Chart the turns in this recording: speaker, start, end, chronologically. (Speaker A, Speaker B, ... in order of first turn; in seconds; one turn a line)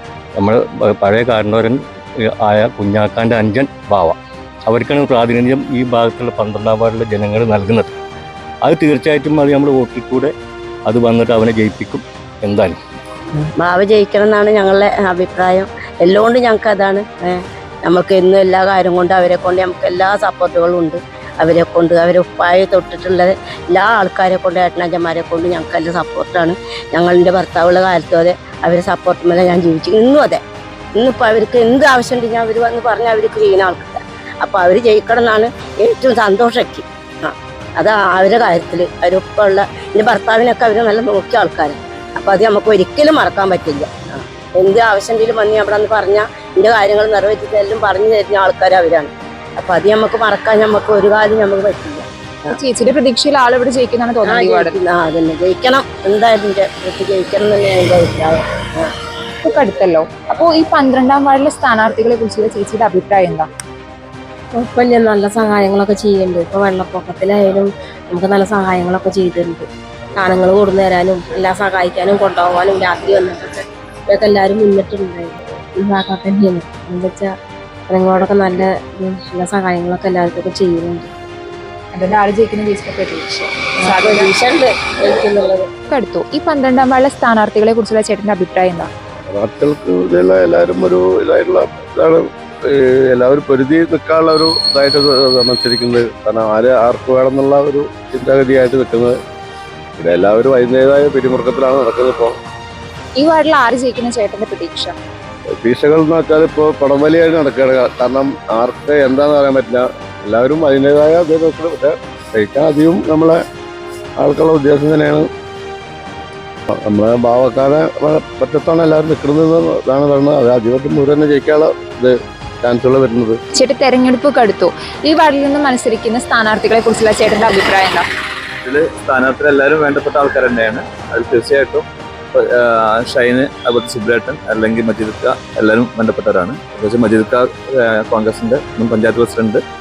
Speaker A: 0.4-7.9
Speaker A: 8.6-10.3
Speaker A: 10.8-12.8
Speaker B: 13.5-30.4
Speaker B: 30.9-52.0
Speaker C: 52.5-54.8
Speaker B: 54.2-58.9
Speaker C: 59.4-63.5
Speaker D: 64.5-77.3
Speaker D: 77.9-81.1
Speaker C: 81.9-84.3
Speaker D: 83.8-85.7
Speaker C: 85.9-88.9
Speaker E: 89.3-99.2
Speaker E: 100.0-102.3
Speaker C: 103.2-104.9
Speaker E: 105.6-113.4
Speaker E: 114.2-115.3
Speaker E: 116.7-123.4
Speaker C: 123.5-128.0
Speaker F: 128.7-131.8
Speaker F: 133.0-137.4
Speaker F: 138.0-139.6